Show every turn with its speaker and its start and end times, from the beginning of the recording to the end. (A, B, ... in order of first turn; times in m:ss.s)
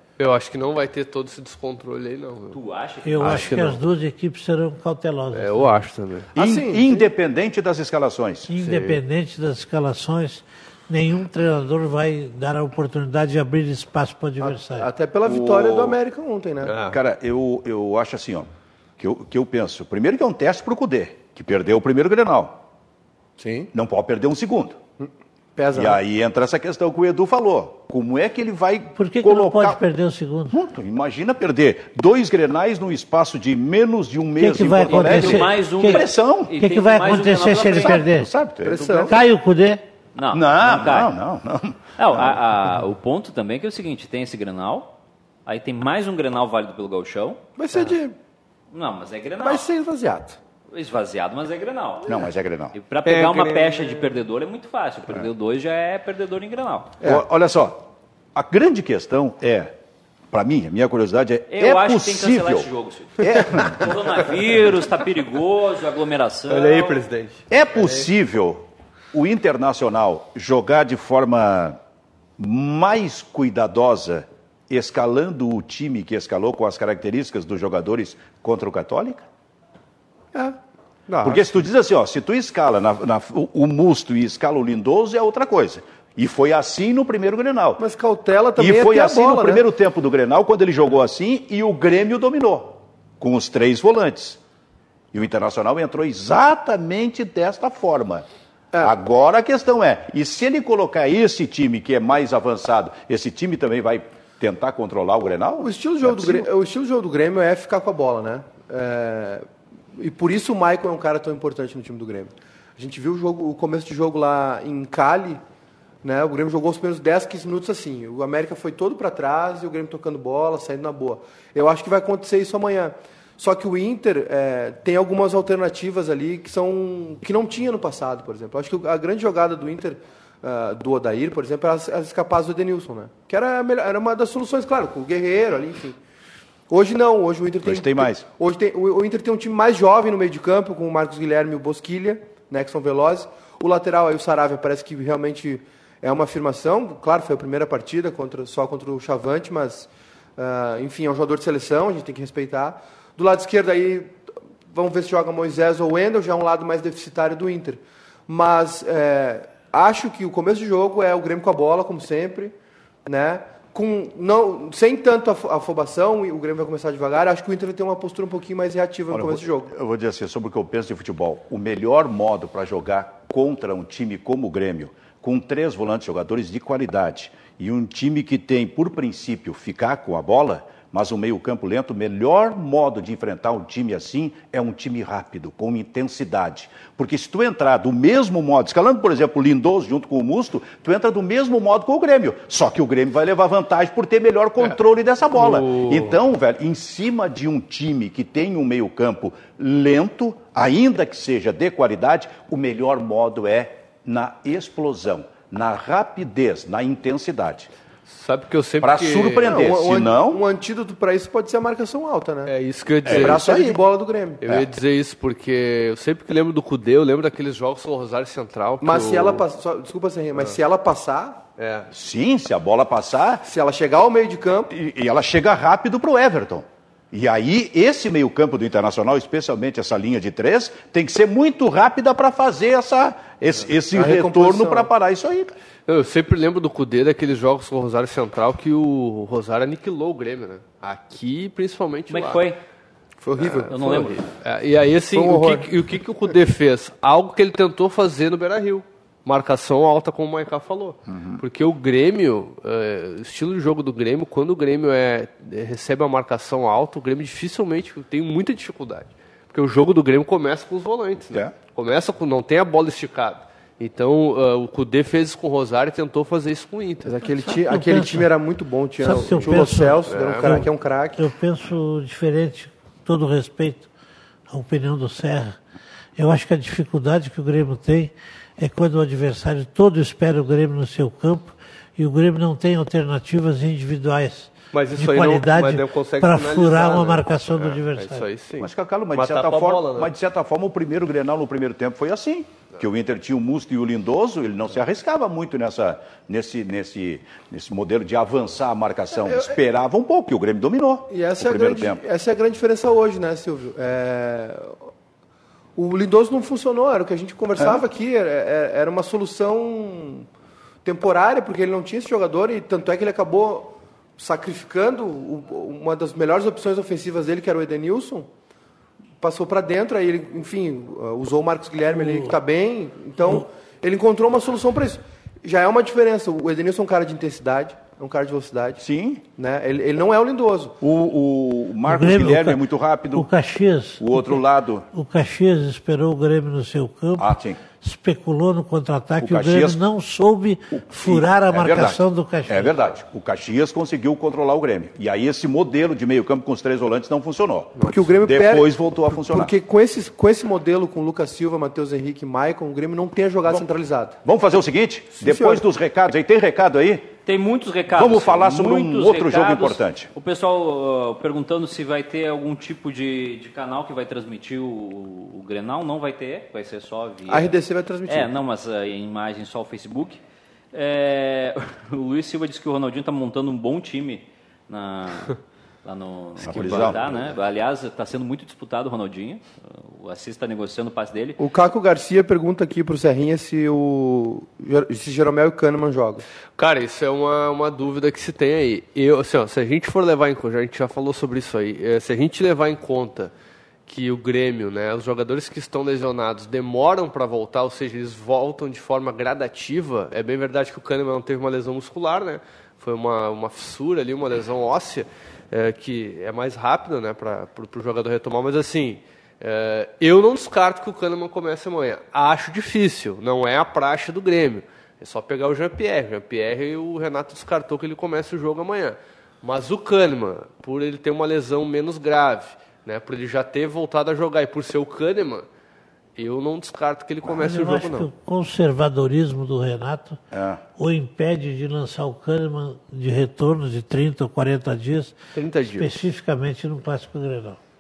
0:00.2-0:02.6 A
0:02.5-0:03.6 B
0:03.0-0:05.7 C
0:03.2-0:03.8 A
0:05.3-0:06.3 A
0:06.3-0:07.1 D
0:06.3-0:08.5 E
0:08.5-0:14.9 C
0:08.6-0:09.0 A
0:14.4-0:16.8 D
0:15.2-0:16.0 E
0:16.6-0:17.0 A
0:16.8-0:22.6 E
0:23.4-0:23.7 D
0:23.7-0:24.8 E
0:25.0-0:26.0 D
0:25.7-0:29.8 E
0:28.9-0:30.6 C
0:30.5-0:36.5 E
0:34.4-0:38.3 C
0:34.8-0:38.0 B
0:37.8-0:39.2 E
0:38.6-0:39.2 D
0:39.1-0:39.8 C
0:40.1-0:41.1 B
0:40.3-0:42.4 E
0:42.0-0:44.9 B
0:45.4-0:47.4 B
0:47.6-0:48.1 D
0:48.7-0:49.6 B
0:49.4-0:50.4 D
0:50.7-0:57.0 B
0:52.0-0:52.7 E
0:53.0-0:54.1 A
0:57.0-0:59.7 E
1:00.3-1:03.9 E
1:01.5-1:07.0 B
1:06.5-1:08.0 A
1:07.5-1:11.8 E
1:12.4-1:19.2 E
1:21.1-1:21.4 A
1:21.2-1:27.8 E
1:27.8-1:29.6 D
1:28.6-1:34.4 E
1:35.1-1:38.2 E
1:38.8-1:46.5 E
1:45.6-1:55.4 D
1:56.0-2:16.0 D
2:16.7-2:34.2 D
2:17.6-2:18.2 E
2:34.7-2:42.5 D
2:43.0-2:49.7 D
2:49.1-3:27.7 E
3:15.3-3:16.1 A
3:28.1-3:29.6 A
3:28.8-3:30.4 E
3:29.4-3:32.5 D
3:32.5-3:33.4 A
3:33.0-3:33.8 E
3:33.1-3:34.5 D
3:34.4-3:39.4 A
3:38.8-3:41.4 D
3:41.6-3:41.9 A
3:41.9-3:43.4 E
3:43.4-3:44.7 D
3:44.7-3:55.5 E
3:53.9-3:54.9 D
3:55.9-4:02.4 A
4:02.1-4:02.6 B
4:03.2-4:04.2 D
4:03.4-4:27.1 A
4:03.7-4:04.2 B
4:05.1-4:05.7 D
4:11.1-4:11.4 E
4:27.0-4:31.2 D
4:27.4-4:28.3 C
4:29.0-4:33.9 C
4:29.2-4:30.7 A
4:34.5-4:35.6 C
4:36.2-4:48.3 C
4:44.7-4:50.1 A
4:48.6-5:02.0 E
4:59.2-4:59.5 D
5:01.1-5:04.8 D
5:05.8-5:10.3 D
5:10.8-5:18.3 D
5:19.2-5:28.8 D
5:21.9-5:22.4 C
5:28.8-5:29.2 E
5:29.4-5:30.8 D
5:30.8-5:33.3 E
5:31.8-5:42.8 C
5:34.0-5:34.8 E
5:37.2-5:37.6 E
5:39.2-5:39.8 E
5:40.7-5:49.5 E
5:47.8-5:54.2 D
5:54.2-5:57.1 E
5:55.2-5:55.6 D
5:57.2-6:10.2 B
5:57.9-6:00.1 E
6:07.3-6:08.3 D
6:10.7-6:21.4 B
6:16.4-6:17.1 E
6:21.4-6:26.2 D
6:26.6-6:33.3 A
6:33.8-7:05.4 A
7:06.2-7:08.1 A
7:07.3-7:10.2 C
7:10.3-7:10.6 E
7:10.8-7:17.6 C
7:15.3-7:15.9 A